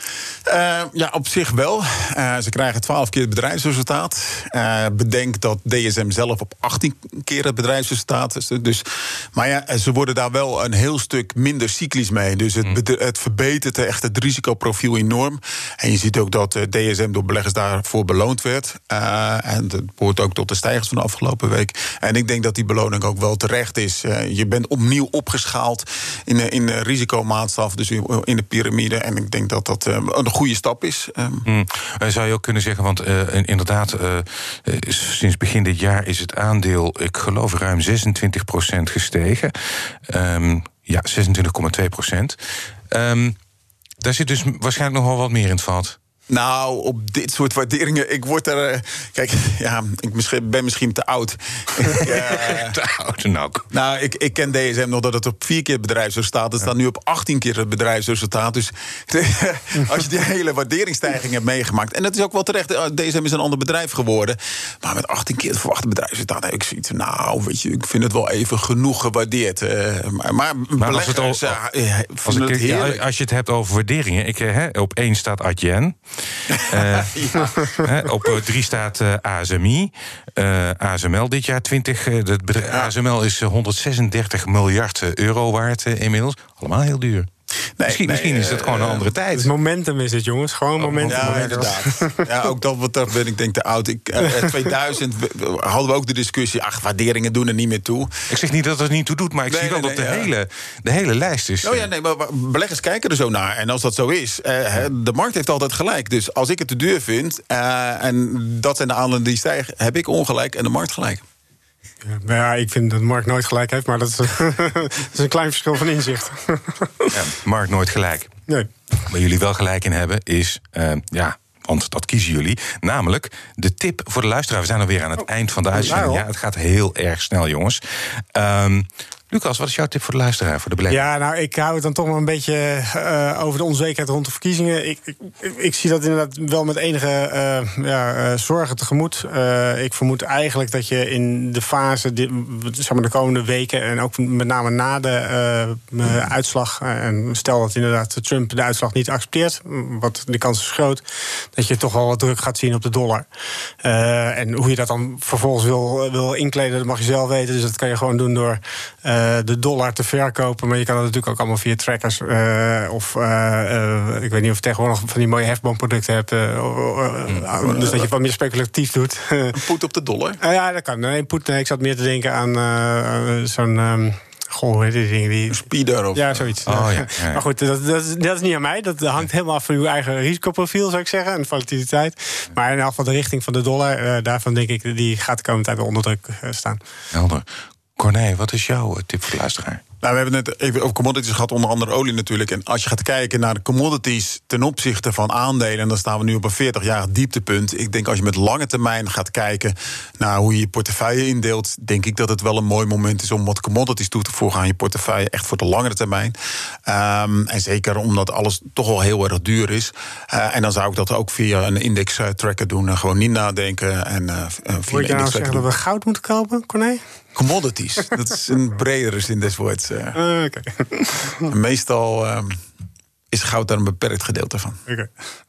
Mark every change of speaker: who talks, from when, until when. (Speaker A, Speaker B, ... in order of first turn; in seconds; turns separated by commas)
Speaker A: 0.5-31.4, Speaker B: 31.4-42.4, Speaker B: 42.9-43.4, Speaker B: 44.0-46.0, Speaker A: 46.3-52.8, Speaker B: 52.0-53.6, Speaker A: 53.7-73.0, Speaker B: 70.8-71.6, Speaker B: 72.2-87.3, Speaker A: 76.5-77.9, Speaker A: 87.8-89.1, Speaker B: 87.8-89.5, Speaker C: 89.3-92.2, Speaker B: 90.8-91.7, Speaker A: 91.0-98.1, Speaker B: 98.3-101.9, Speaker A: 99.5-100.3, Speaker A: 101.6-111.2, Speaker C: 112.0-117.1, Speaker B: 117.1-118.3, Speaker B: 119.1-131.0, Speaker C: 125.7-126.2, Speaker C: 130.9-151.0, Speaker C: 151.5-153.2, Speaker C: 153.8-169.6, Speaker A: 167.7-168.0, Speaker A: 169.5-170.4, Speaker C: 170.4-175.6, Speaker A: 175.5-176.4, Speaker C: 176.1-186.8, Speaker B: 176.7-177.4, Speaker B: 187.1-187.4, Speaker B: 188.0-189.8, Speaker A: 190.0-215.7, Speaker C: 214.9-217.0, Speaker A: 217.3-220.2, Speaker C: 220.1-221.5, Speaker A: 221.4-222.6, Speaker A: 223.3-224.8